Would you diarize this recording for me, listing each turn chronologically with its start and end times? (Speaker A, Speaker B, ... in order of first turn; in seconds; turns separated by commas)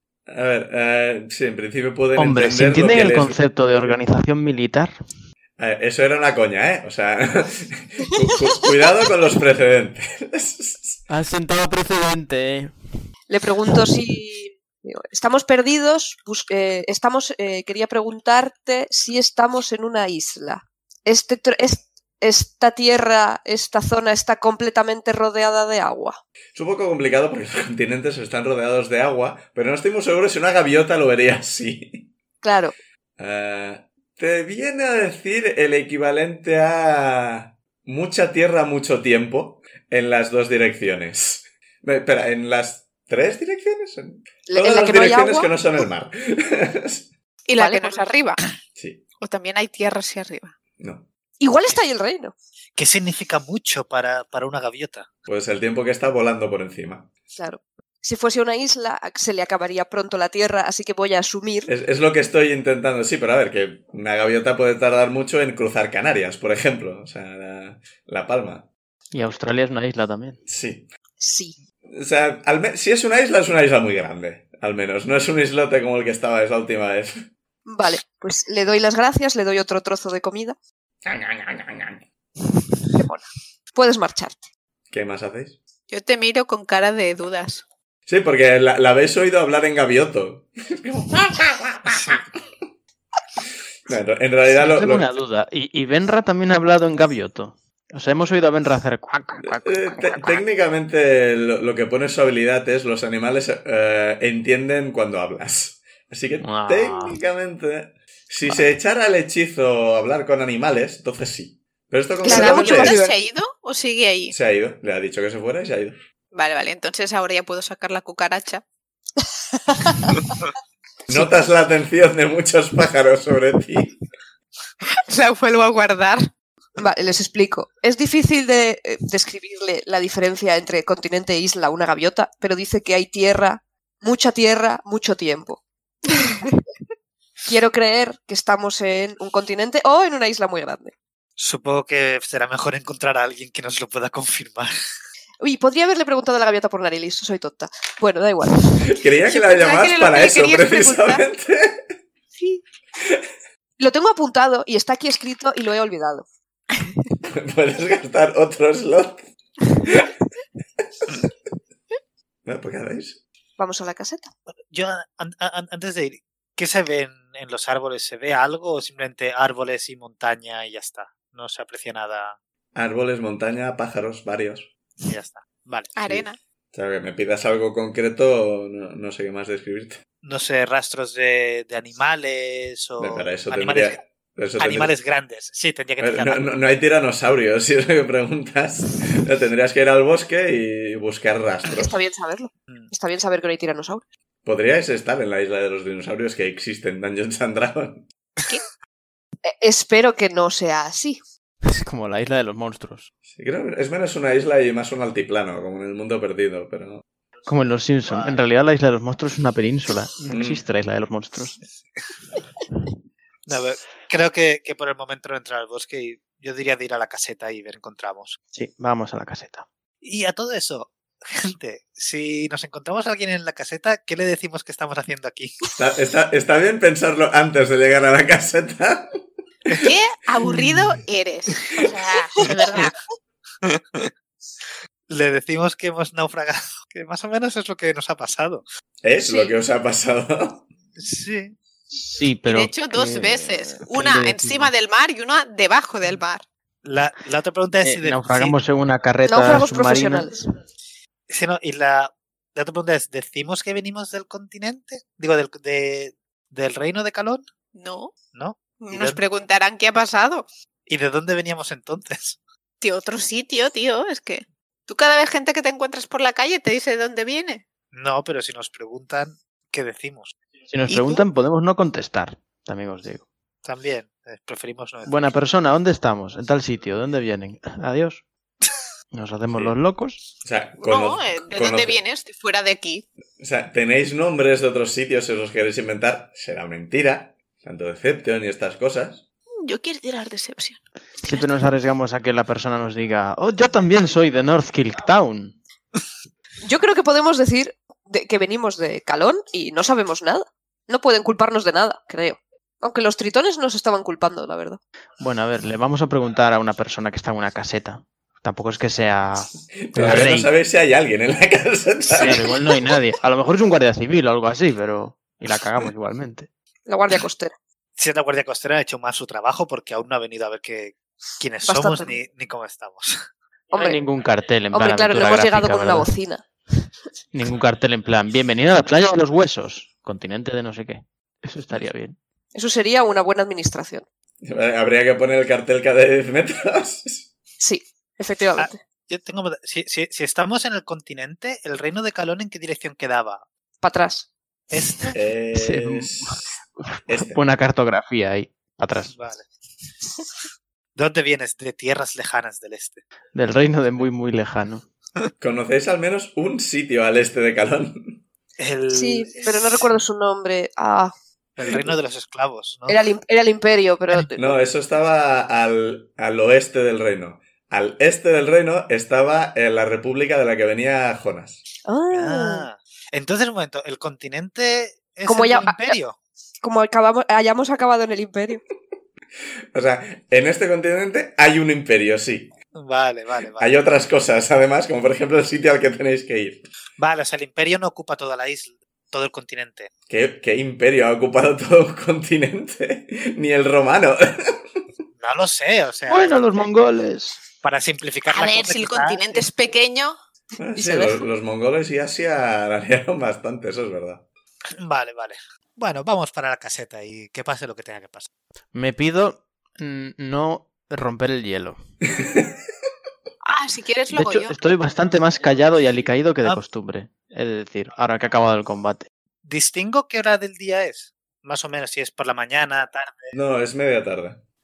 Speaker A: 0.3-3.4, Speaker B: 2.2-4.9, Speaker A: 5.6-11.0, Speaker B: 11.1-12.7, Speaker C: 13.3-26.2, Speaker A: 26.5-32.1, Speaker C: 32.4-32.7, Speaker A: 33.2-47.1, Speaker C: 44.5-45.5, Speaker D: 47.5-48.4, Speaker C: 47.6-48.0, Speaker A: 48.8-49.0, Speaker D: 49.2-50.5, Speaker A: 50.8-51.1, Speaker C: 51.4-52.3, Speaker E: 52.8-55.1, Speaker A: 55.2-57.1, Speaker C: 57.3-61.7, Speaker A: 61.7-68.7, Speaker B: 69.1-70.4, Speaker A: 70.5-70.9, Speaker C: 71.2-71.6, Speaker A: 71.9-77.2, Speaker C: 77.7-80.5, Speaker A: 81.0-82.0, Speaker C: 82.9-84.4, Speaker A: 84.9-85.6, Speaker D: 85.9-87.6, Speaker A: 88.1-92.2, Speaker A: 93.8-95.1, Speaker B: 94.5-100.4, Speaker A: 99.5-113.0, Speaker B: 106.4-107.2, Speaker C: 112.2-113.2, Speaker D: 112.2-114.3, Speaker A: 114.3-116.0, Speaker D: 116.3-118.6, Speaker A: 121.1-124.0, Speaker D: 125.1-126.2, Speaker C: 126.8-135.6, Speaker C: 137.4-140.9, Speaker E: 141.4-144.7, Speaker C: 145.4-148.6, Speaker A: 148.8-151.8, Speaker D: 149.2-151.2, Speaker C: 153.8-156.2, Speaker A: 157.3-159.3, Speaker A: 159.8-160.1, Speaker A: 162.4-163.2, Speaker C: 163.6-164.3, Speaker E: 164.7-172.3, Speaker A: 172.7-174.7, Speaker E: 175.1-175.9, Speaker D: 175.9-176.4, Speaker A: 176.1-180.0, Speaker E: 180.2-184.0, Speaker A: 183.0-184.9, Speaker E: 184.6-186.6, Speaker A: 186.0-191.9, Speaker C: 191.7-194.0, Speaker A: 194.4-198.1, Speaker C: 199.4-201.2, Speaker B: 201.7-203.1, Speaker A: 203.2-207.0, Speaker B: 207.5-211.6, Speaker E: 208.1-208.4, Speaker A: 210.3-210.6, Speaker E: 213.4-218.4, Speaker B: 218.5-219.7, Speaker E: 220.0-225.5, Speaker A: 225.8-229.2, Speaker D: 229.8-232.9, Speaker E: 232.4-232.9, Speaker E: 233.6-234.1, Speaker E: 235.1-238.6, Speaker A: 239.0-240.6, Speaker C: 239.2-239.5, Speaker E: 240.9-241.6, Speaker B: 241.9-244.7, Speaker D: 242.4-246.4, Speaker E: 246.8-248.6, Speaker B: 247.8-250.3, Speaker C: 249.2-250.4, Speaker E: 251.3-257.4, Speaker D: 257.7-258.1, Speaker E: 258.3-259.2, Speaker D: 258.8-260.4, Speaker E: 260.9-262.4, Speaker D: 262.8-267.6, Speaker E: 267.9-270.3, Speaker B: 270.7-273.2, Speaker D: 270.9-271.1, Speaker E: 273.6-275.4, Speaker B: 275.1-278.2, Speaker B: 279.1-280.2, Speaker A: 280.4-282.0, Speaker D: 280.8-283.1, Speaker A: 283.4-289.2, Speaker D: 289.6-291.4, Speaker B: 291.2-295.6, Speaker C: 296.6-304.8, Speaker B: 305.2-310.5, Speaker A: 309.8-312.5, Speaker B: 312.1-316.5, Speaker C: 316.9-317.5, Speaker E: 318.0-323.2, Speaker C: 321.6-322.1, Speaker C: 323.7-324.0, Speaker B: 323.7-326.1, Speaker C: 324.7-326.4, Speaker B: 327.3-332.2, Speaker C: 332.5-334.0, Speaker A: 334.4-337.3, Speaker C: 337.6-338.8, Speaker E: 338.6-343.4, Speaker C: 343.8-344.3, Speaker E: 344.7-345.1, Speaker A: 345.1-346.5, Speaker B: 345.5-349.1, Speaker A: 347.1-347.4, Speaker E: 349.1-349.5, Speaker E: 350.9-353.0, Speaker B: 353.3-354.8, Speaker A: 355.4-358.2, Speaker E: 358.6-359.9, Speaker C: 358.9-361.1, Speaker E: 361.6-363.0, Speaker C: 362.9-364.6, Speaker A: 364.4-371.6, Speaker C: 371.8-372.7, Speaker E: 372.1-376.2, Speaker C: 375.2-376.0, Speaker C: 376.6-378.6, Speaker A: 379.7-382.5, Speaker E: 382.7-383.7, Speaker A: 383.6-386.7, Speaker E: 387.0-389.9, Speaker A: 390.1-394.6, Speaker E: 395.2-396.4, Speaker B: 396.1-397.4, Speaker E: 397.6-399.4, Speaker D: 398.3-400.1, Speaker A: 400.6-404.2, Speaker C: 400.8-401.2, Speaker E: 404.8-408.3, Speaker B: 408.7-411.8, Speaker A: 412.2-412.5, Speaker D: 413.4-414.5, Speaker B: 414.1-419.1, Speaker E: 419.4-423.3, Speaker A: 423.3-424.4